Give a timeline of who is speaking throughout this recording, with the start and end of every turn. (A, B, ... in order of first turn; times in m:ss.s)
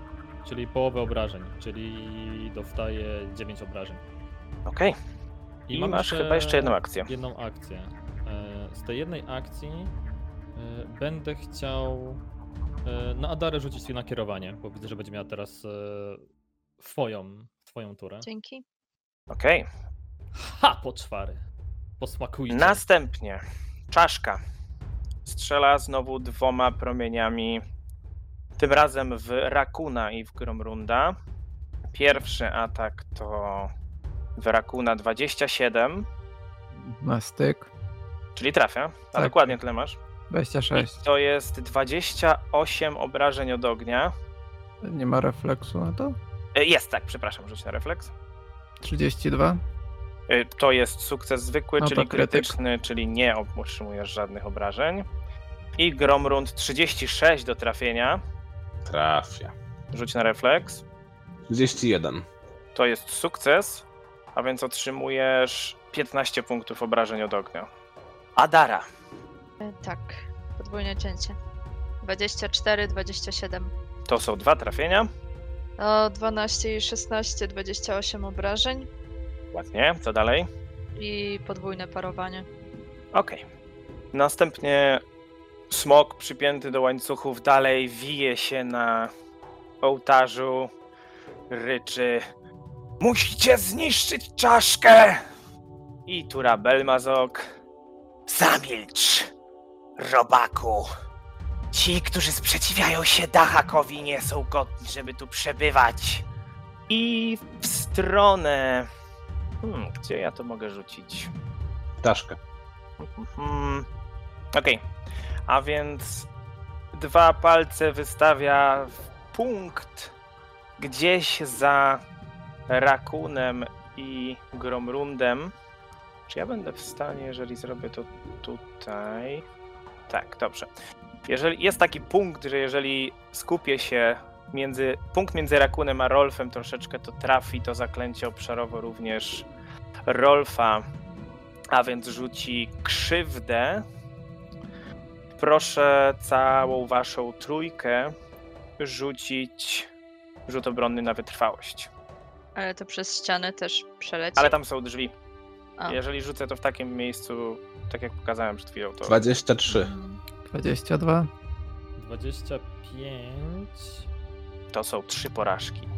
0:00.4-0:04.0 A
0:04.6-0:05.0 B
0:05.7-0:09.9 A
0:05.7-0:07.1 B
0:10.5-0:12.2 A
0:12.8-0:16.2 A
0:16.8-0:18.3 A
0:18.2-0:18.6 C
0:19.3-0:19.6 B
0:20.3-0:21.4 A
0:22.0-0:22.8 A
0:22.5-0:24.4 B
0:25.2-0:27.6 B
0:28.6-0:31.2 B
0:31.9-0:33.7 B
0:34.4-0:36.0 B
0:36.8-0:37.7 D
0:38.3-0:40.0 B
0:39.2-0:39.5 D
0:40.3-0:41.0 D
0:40.7-0:44.1 B
0:44.8-0:46.2 D
0:46.5-0:48.1 B
0:48.8-0:49.6 D
0:50.3-0:55.0 B
0:51.8-0:52.5 D
0:55.8-0:58.2 B
0:58.8-0:59.5 E
0:59.9-1:00.8 B
1:01.5-1:02.2 E
1:02.7-1:07.7 B
1:08.4-1:08.8 B
1:09.6-1:11.4 C
1:12.0-1:13.7 C
1:14.1-1:15.1 B
1:15.8-1:18.9 C
1:19.5-1:20.5 B
1:21.0-1:22.4 C
1:23.1-1:23.4 B
1:24.1-1:25.0 B
1:25.7-1:29.1 B
1:29.8-1:30.7 B
1:31.5-1:32.2 B
1:33.0-1:35.2 B
1:36.1-1:37.4 B
1:38.3-1:39.3 B
1:40.0-1:40.9 B
1:41.7-1:46.2 B
1:46.9-1:48.9 B
1:49.6-1:51.3 B
1:52.0-1:52.4 E
1:53.0-1:53.8 B
1:54.5-1:54.8 B
1:55.5-1:56.3 B
1:56.9-2:00.1 B
2:00.8-2:02.0 B
2:02.7-2:05.5 B
2:06.3-2:09.4 B
2:10.1-2:10.7 B
2:11.2-2:19.4 B
2:20.0-2:20.8 B
2:21.7-2:23.8 B
2:25.4-2:28.1 B
2:28.8-2:29.9 B
2:30.5-2:31.9 B
2:32.6-2:34.6 C
2:34.4-2:35.1 B
2:35.8-2:39.2 B
2:39.0-2:39.9 E
2:39.7-2:40.2 C
2:40.5-2:41.3 D
2:42.0-2:44.0 A
2:44.7-2:45.9 B